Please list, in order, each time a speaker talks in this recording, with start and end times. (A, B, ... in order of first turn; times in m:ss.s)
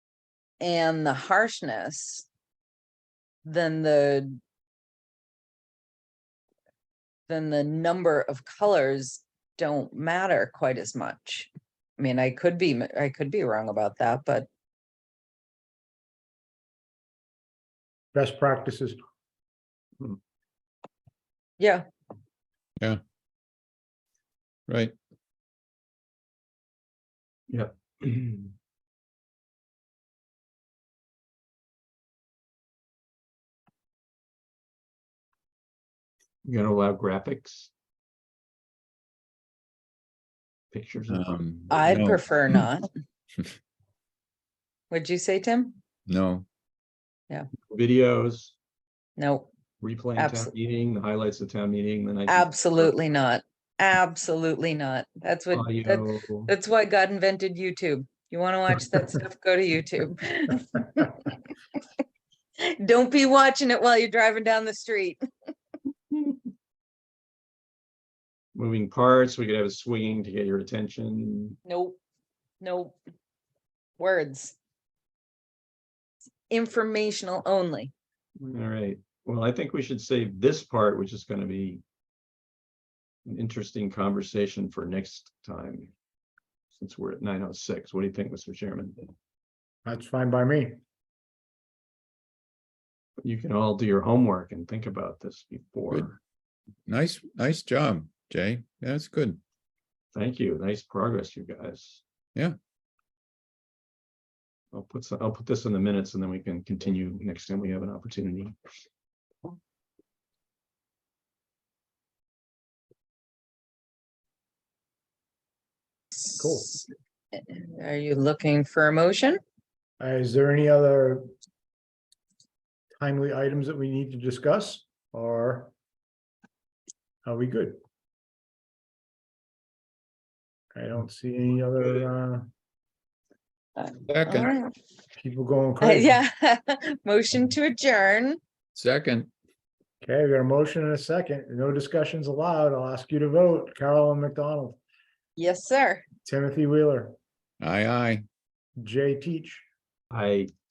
0:00.6-0:02.3 A
0:03.4-0:04.4 A
0:07.3-0:14.5 A
0:18.1-0:19.0 B
0:21.6-0:21.8 A
0:24.7-0:25.0 C
0:27.5-0:28.5 D
0:36.4-0:37.7 D
0:40.7-0:41.4 D
0:41.1-0:42.5 C
0:41.7-0:42.9 A
0:44.9-0:45.8 A
0:46.1-0:46.5 C
0:47.7-0:48.6 D
0:49.2-0:49.5 A
0:49.8-0:53.0 D
0:50.2-0:50.5 A
0:52.3-1:01.3 A
0:55.5-0:56.5 D
1:02.6-1:05.2 A
1:08.6-1:11.6 D
1:11.6-1:12.0 A
1:12.6-1:13.0 A
1:14.0-1:14.6 A
1:16.5-1:17.9 A
1:18.4-1:21.8 D
1:23.3-1:25.9 D
1:26.7-1:29.1 D
1:29.8-1:30.8 B
1:33.2-1:36.2 D
1:36.9-1:39.4 C
1:40.1-1:42.0 D
1:44.7-1:48.6 D
1:56.3-1:59.4 A
1:56.4-1:56.7 B
2:00.0-2:01.3 B
2:03.0-2:05.7 B
2:07.2-2:07.8 B
2:10.8-2:12.5 B
2:13.8-2:14.7 A
2:14.1-2:14.5 C
2:15.2-2:16.2 B
2:15.8-2:18.4 A
2:18.8-2:19.3 C
2:20.0-2:24.8 B
2:25.4-2:26.0 A
2:26.2-2:27.2 B
2:27.6-2:28.2 C
2:28.8-2:29.6 B
2:30.1-2:30.5 D